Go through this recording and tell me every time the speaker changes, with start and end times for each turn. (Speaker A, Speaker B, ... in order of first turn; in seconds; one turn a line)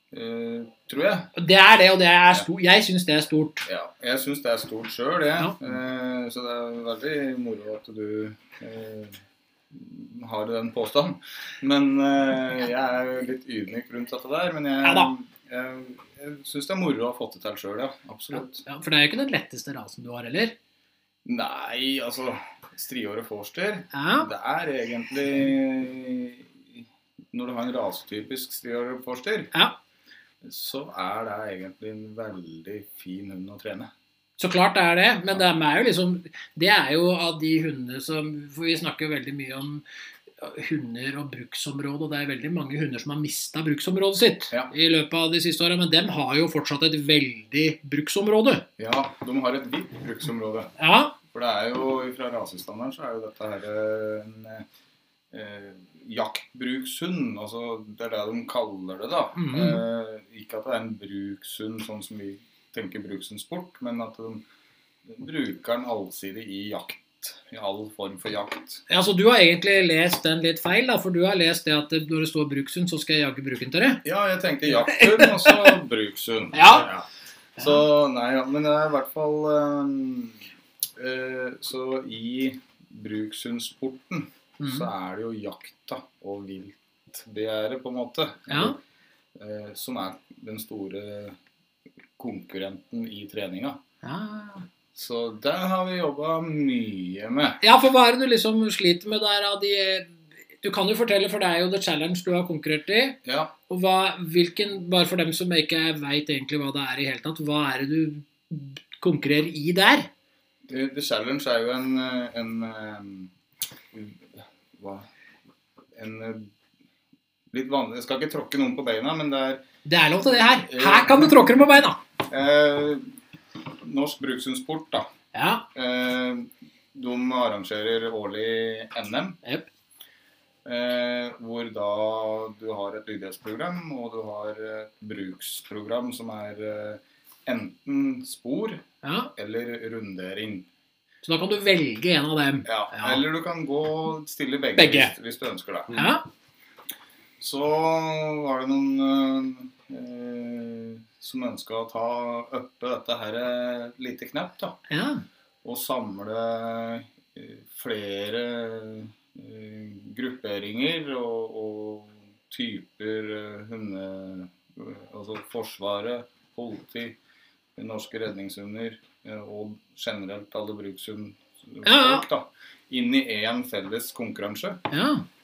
Speaker A: 0.1-1.3
Speaker B: 1.4-3.7
Speaker A: 3.7-9.2
Speaker A: 9.7-18.6
Speaker B: 14.8-15.1
Speaker B: 18.3-20.6
Speaker A: 21.2-29.5
Speaker B: 23.9-24.3
Speaker A: 30.4-33.9
Speaker B: 34.4-39.8
Speaker B: 40.4-48.7
Speaker A: 48.8-50.7
Speaker B: 50.8-51.2
Speaker A: 51.3-54.7
Speaker A: 55.3-64.5
Speaker B: 59.4-59.8
Speaker A: 65.0-68.8
Speaker B: 68.9-74.0
Speaker A: 74.0-77.1
Speaker B: 75.0-75.6
Speaker B: 76.5-76.9
Speaker A: 77.6-80.4
Speaker A: 81.0-88.8
Speaker B: 84.6-84.9
Speaker B: 88.5-88.8
Speaker A: 89.4-91.4
Speaker A: 92.2-93.8
Speaker B: 94.0-94.7
Speaker A: 95.0-97.6
Speaker B: 97.6-110.1
Speaker A: 103.2-103.5
Speaker A: 110.7-113.3
Speaker A: 113.9-115.1
Speaker A: 115.9-116.5
Speaker A: 117.5-119.7
Speaker B: 119.8-122.0
Speaker A: 120.3-121.5
Speaker A: 122.3-123.1
Speaker A: 123.8-125.1
Speaker B: 125.3-125.7
Speaker A: 125.7-129.4
Speaker A: 130.7-138.8
Speaker B: 139.0-139.3
Speaker A: 139.4-140.7
Speaker B: 141.2-143.2
Speaker A: 142.7-145.9
Speaker B: 144.8-145.1
Speaker B: 145.9-146.2
Speaker A: 147.4-154.8
Speaker B: 154.9-155.2
Speaker A: 155.6-167.2
Speaker A: 167.8-174.8
Speaker B: 171.8-172.3
Speaker B: 174.9-175.3